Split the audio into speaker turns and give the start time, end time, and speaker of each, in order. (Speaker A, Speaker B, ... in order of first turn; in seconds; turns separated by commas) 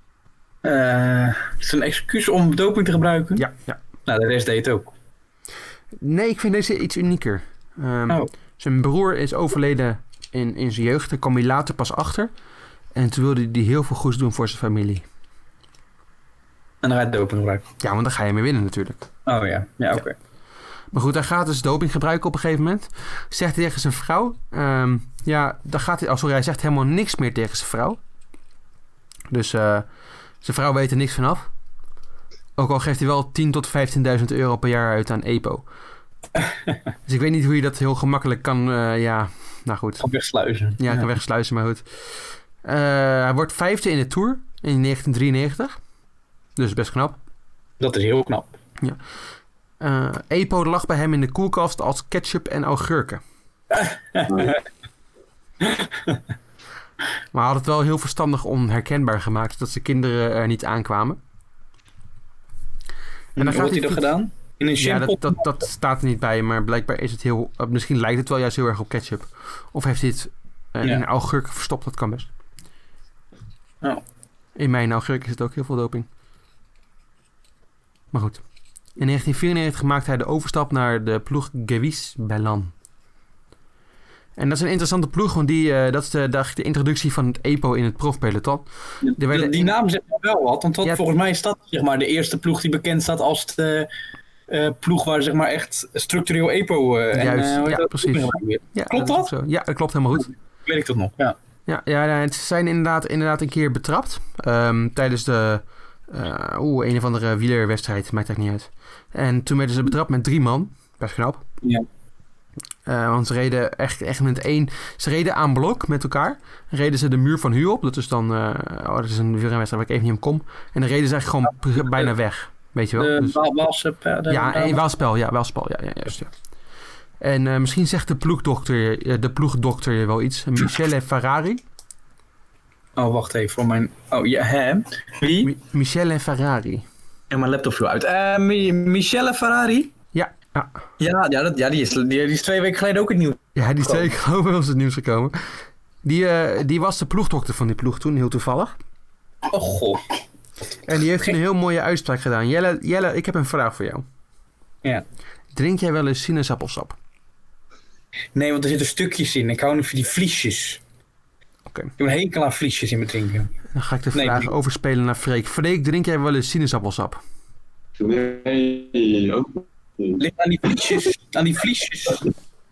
Speaker A: 0.6-3.5, Speaker B: 3.4-3.8, Speaker A: 4.1-4.9, Speaker B: 6.0-12.3, Speaker B: 12.9-15.0, Speaker A: 16.8-17.6, Speaker B: 17.8-19.1, Speaker A: 19.3-20.1, Speaker B: 20.9-28.0, Speaker B: 29.3-29.9, Speaker B: 30.4-31.5, Speaker B: 32.6-35.6, Speaker B: 37.1-40.0, Speaker A: 40.0-41.1, Speaker B: 40.8-45.8, Speaker B: 46.6-47.2, Speaker A: 47.8-48.5, Speaker B: 49.8-53.2, Speaker A: 53.7-54.6, Speaker A: 55.6-56.2, Speaker B: 57.3-61.2, Speaker A: 63.4-65.4, Speaker B: 63.4-64.1, Speaker B: 64.8-72.3, Speaker B: 74.6-76.1, Speaker B: 78.1-78.4, Speaker B: 79.0-82.7, Speaker B: 84.4-89.7, Speaker A: 89.1-93.9, Speaker A: 94.5-99.3, Speaker B: 97.1-100.3, Speaker A: 100.7-101.4, Speaker B: 101.7-111.4, Speaker B: 112.9-123.4, Speaker A: 121.8-122.1, Speaker A: 123.0-124.8, Speaker B: 124.3-126.3, Speaker B: 127.2-131.6, Speaker A: 132.9-135.5, Speaker B: 135.4-136.8, Speaker A: 137.3-139.9, Speaker B: 140.1-140.8, Speaker A: 141.0-144.1, Speaker B: 143.6-145.4, Speaker B: 146.0-148.8, Speaker A: 149.5-150.0, Speaker B: 150.9-154.1, Speaker B: 155.5-156.9, Speaker A: 158.3-160.8, Speaker A: 162.0-163.5, Speaker B: 163.7-167.2, Speaker A: 164.1-164.5, Speaker C: 168.0-170.2, Speaker A: 170.2-172.3